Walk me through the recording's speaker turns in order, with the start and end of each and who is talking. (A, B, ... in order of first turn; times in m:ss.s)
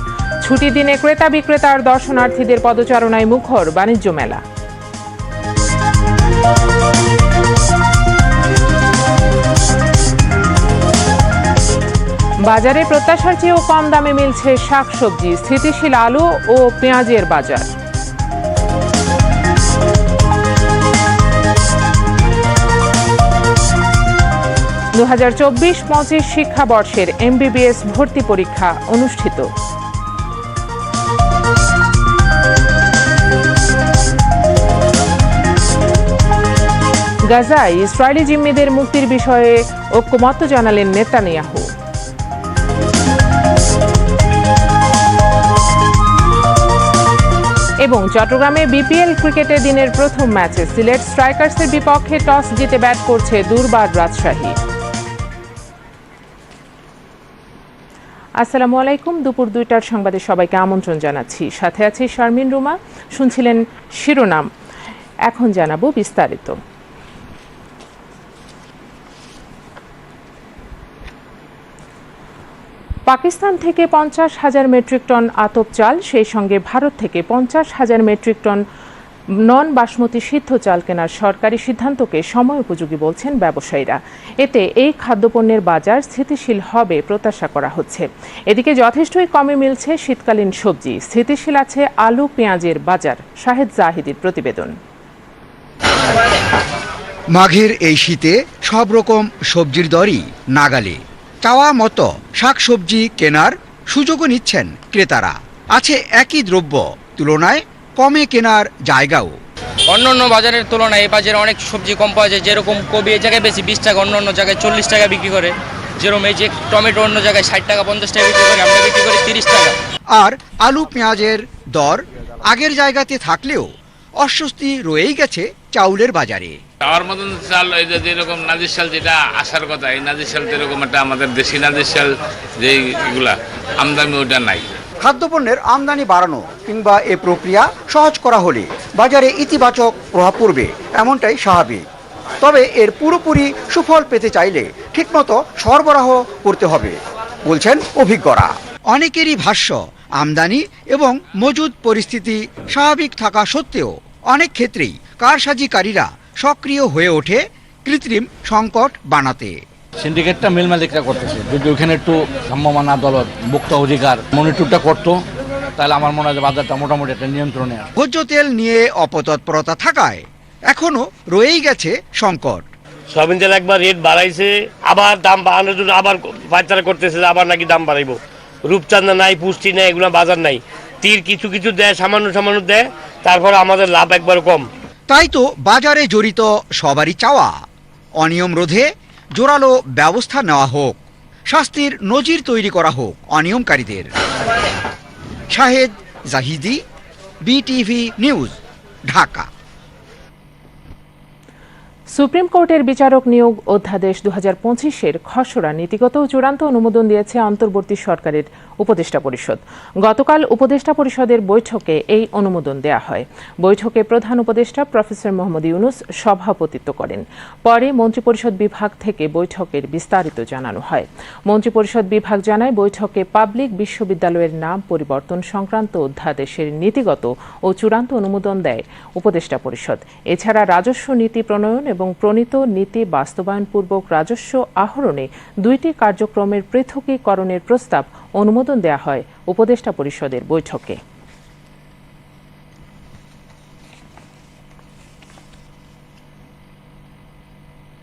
0:00.4-0:04.4 A
0:12.4-0:17.7 A
0:25.0-0:29.5 A
0:37.3-0:41.7 A
0:47.8-0:54.6 A
0:58.4-1:04.5 A
1:05.3-1:06.6 A
1:13.1-1:18.6 A
1:19.4-1:34.8 A
1:37.3-1:49.4 B
1:49.9-1:59.8 C
2:00.1-2:06.6 B
2:06.8-2:14.7 D
2:15.0-2:21.8 B
2:22.4-2:39.6 B
2:40.0-2:45.2 E
2:45.8-2:47.9 E
2:48.0-2:52.6 B
2:53.1-3:04.7 F
3:05.1-3:07.6 B
3:08.2-3:14.1 B
3:15.5-3:16.8 B
3:17.4-3:19.5 B
3:22.1-4:01.0 A